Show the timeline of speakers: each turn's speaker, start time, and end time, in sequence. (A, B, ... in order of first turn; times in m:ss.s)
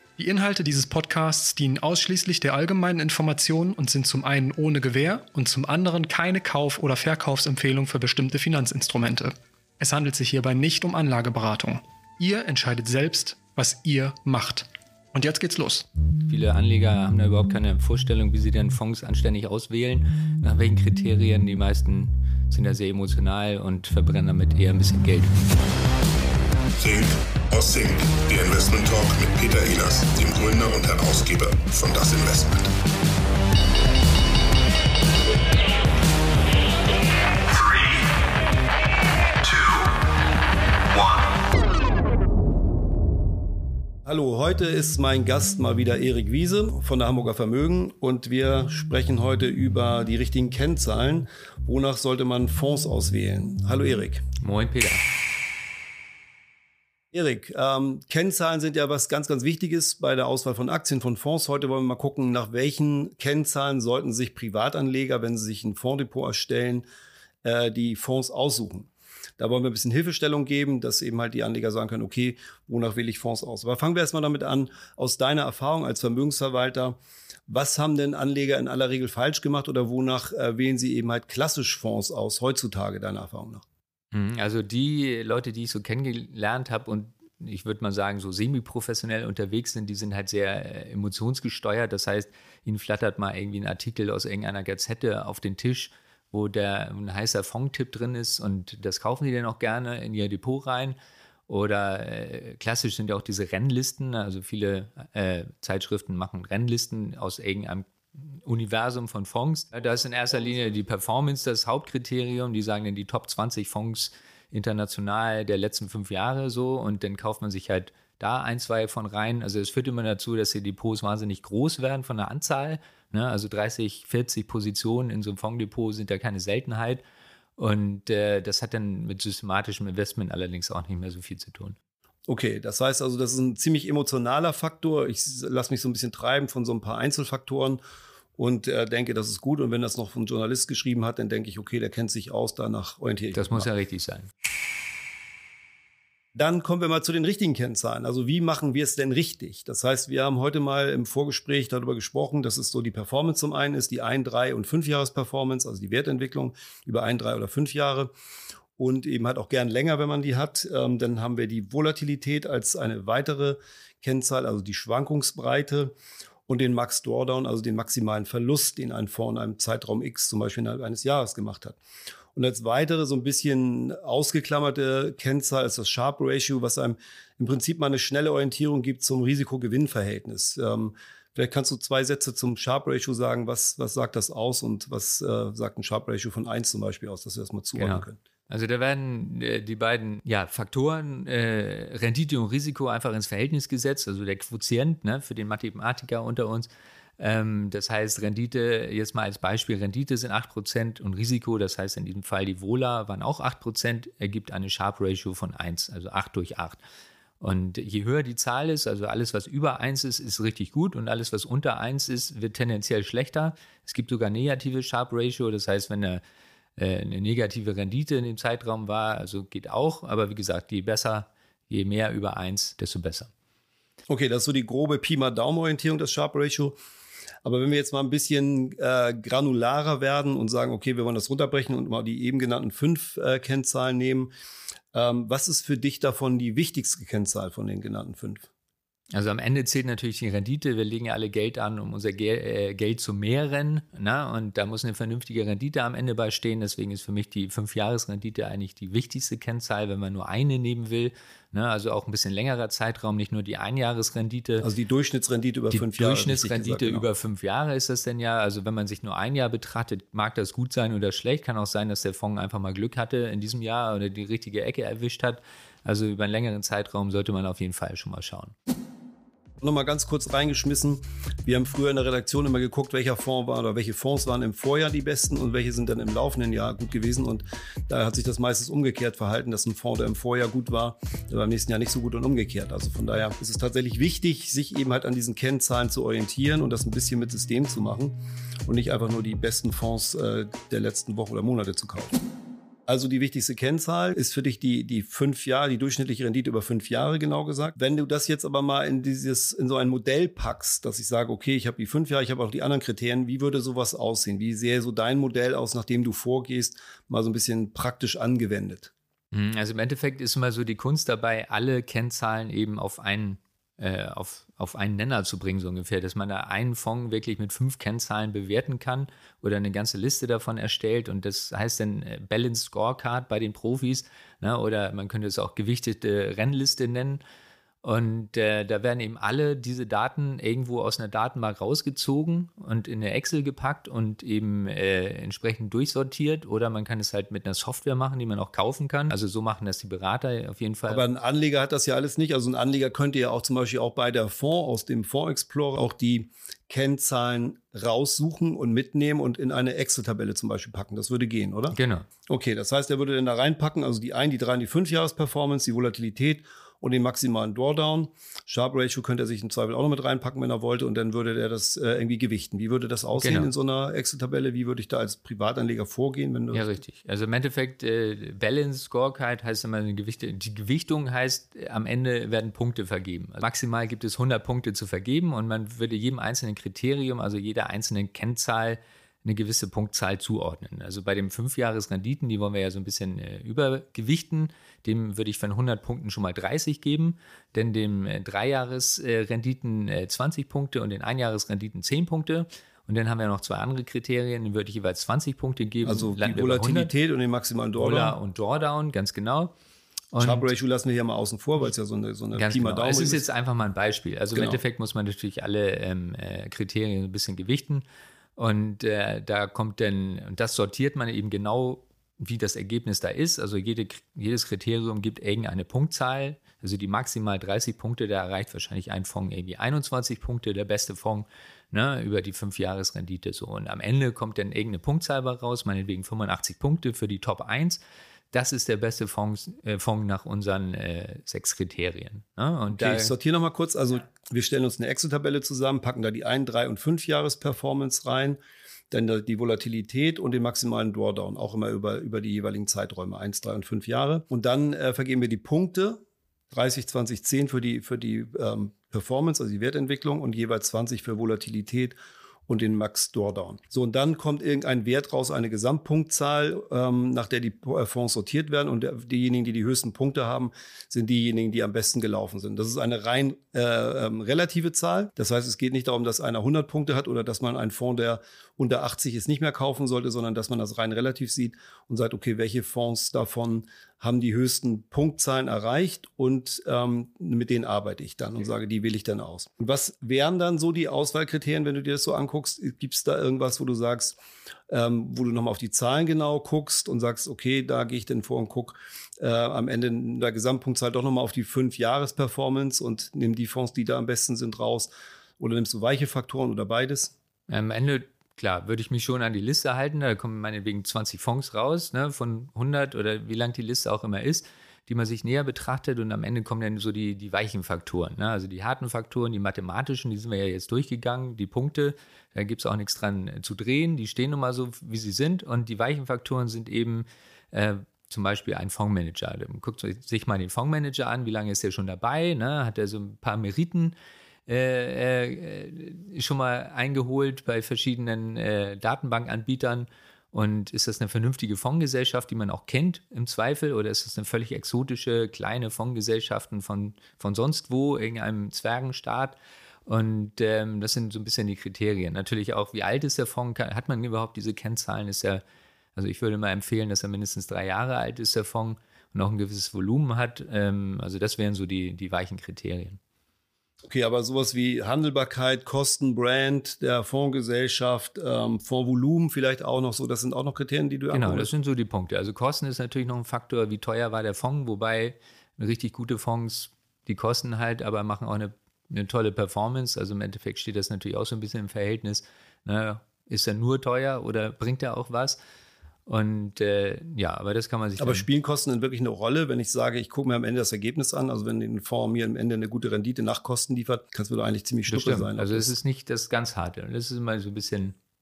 0:00.2-0:15.9 A
0:16.3-0:25.4 B
0:26.8-0:32.7 C
0:37.6-0:37.9 C
0:39.5-0:39.8 C
0:44.0-0:54.2 D
0:54.4-0:55.0 B
0:57.1-1:06.9 D
1:07.4-1:17.0 D
1:17.5-1:23.6 D
1:24.1-1:41.0 B
1:41.5-2:07.0 B
2:07.6-2:11.8 B
2:12.3-2:17.8 D
2:18.4-2:23.7 D
2:23.3-2:24.3 B
2:26.4-2:38.1 D
2:38.8-2:45.9 D
2:46.5-2:51.8 D
2:52.4-3:08.2 D
3:07.8-3:26.8 B
3:27.4-3:36.2 B
3:36.8-3:43.3 B
3:44.1-3:46.8 D
3:47.4-3:54.3 D
3:54.9-3:58.5 D
3:59.1-4:14.7 B
4:14.6-4:17.1 D
4:15.7-4:28.5 B
4:29.6-4:48.2 D
4:48.7-4:52.2 D
4:52.9-5:08.9 D
5:09.3-5:27.2 B
5:27.8-5:41.1 B
5:40.9-6:06.7 D
5:51.7-5:52.1 B
6:03.1-6:03.5 B
6:06.5-6:36.9 B
6:35.8-6:38.2 D
6:37.8-6:39.6 B
6:40.1-6:40.5 B
6:40.2-6:43.2 D
6:42.3-6:47.8 B
6:44.3-6:44.6 D
6:48.4-7:07.8 B
7:08.3-7:13.1 B
7:12.7-7:18.4 D
7:18.9-7:26.0 D
7:26.5-7:32.0 D
7:32.5-8:04.2 D
8:04.7-8:17.1 D
8:17.5-8:44.0 B
8:44.5-9:05.4 B
9:06.0-9:13.0 B
9:13.9-9:21.5 D
9:21.1-9:35.4 B
9:36.1-9:38.3 B
9:38.0-9:45.8 D
9:44.9-9:48.0 B